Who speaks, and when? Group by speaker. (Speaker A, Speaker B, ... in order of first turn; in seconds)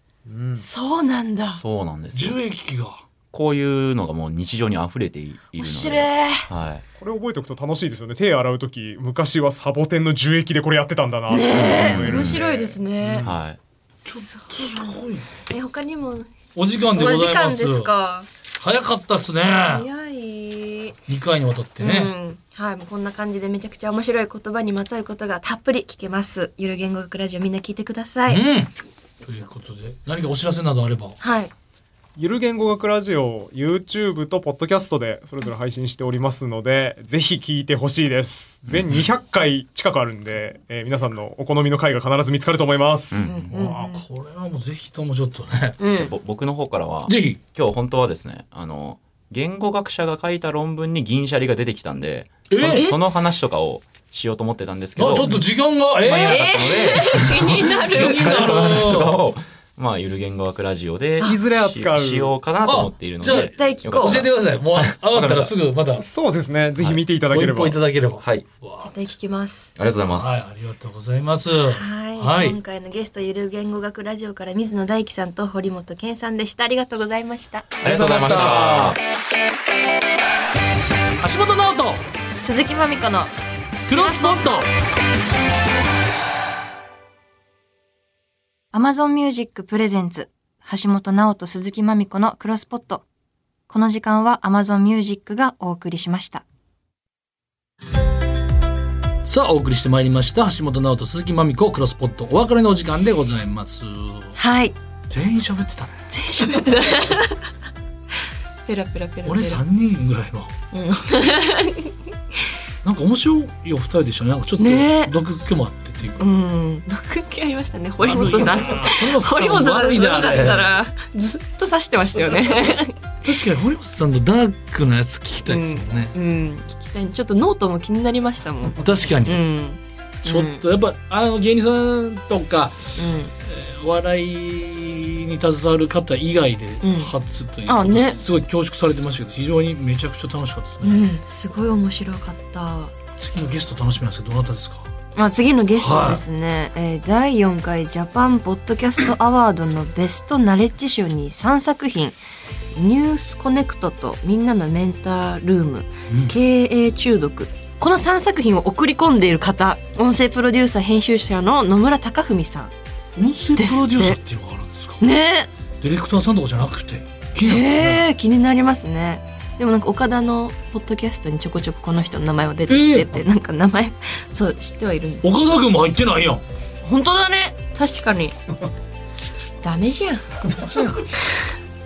Speaker A: 0.3-0.7, 7.0-12.8, 32.2-43.5, 61.2-62.3, 66.0-67.8, 77.8-79.0
Speaker B: 0.6-1.6, 5.6-6.4, 11.3-13.3, 14.1-18.3, 19.7-21.0, 21.8-28.4, 31.2-31.5, 43.3-44.0, 45.8-46.1, 52.6-53.0, 56.1-58.6, 63.2-64.2, 68.8-69.7, 71.7-77.8, 82.4-83.3, 83.9-84.6, 88.7-93.0, 93.7-96.4, 104.4-104.8, 106.1-107.5, 108.7-109.6, 110.7-111.9, 114.6-115.2, 116.2-123.0, 125.5-130.6, 133.0-133.3, 136.8-137.1, 137.7-138.2, 140.8-142.9, 145.2-152.2, 152.7-162.7, 163.6-164.2, 165.0-165.5, 167.4-175.5, 176.8-178.4, 179.6-180.3
Speaker C: 1.5-2.4, 3.3-6.8, 11.7-12.4, 13.2-13.6, 38.7-39.0, 43.1-43.5, 45.9-55.3, 56.0-65.5, 66.8-67.0, 68.2-68.5, 69.8-70.4, 77.8-79.0
Speaker D: 2.1-3.0, 13.0-13.3, 14.1-15.3, 16.6-17.9, 18.6-19.9, 21.1-22.1, 28.3-28.7, 29.2-31.2, 43.5-45.8, 47.1-47.4, 52.5-52.9, 55.0-56.5, 57.6-59.2, 62.6-66.0, 67.3-69.1, 70.1-72.6, 78.1-78.7, 81.2-82.0, 83.9-84.7, 99.2-104.3, 105.1-106.1, 109.2-110.5, 112.8-116.2, 118.0-120.7, 123.2-126.1, 128.8-129.4, 130.2-141.0, 143.2-144.9, 145.8-146.2, 156.1-156.3, 163.2-165.0, 165.8-168.0, 172.7-173.2, 175.2-176.4, 180.4-181.0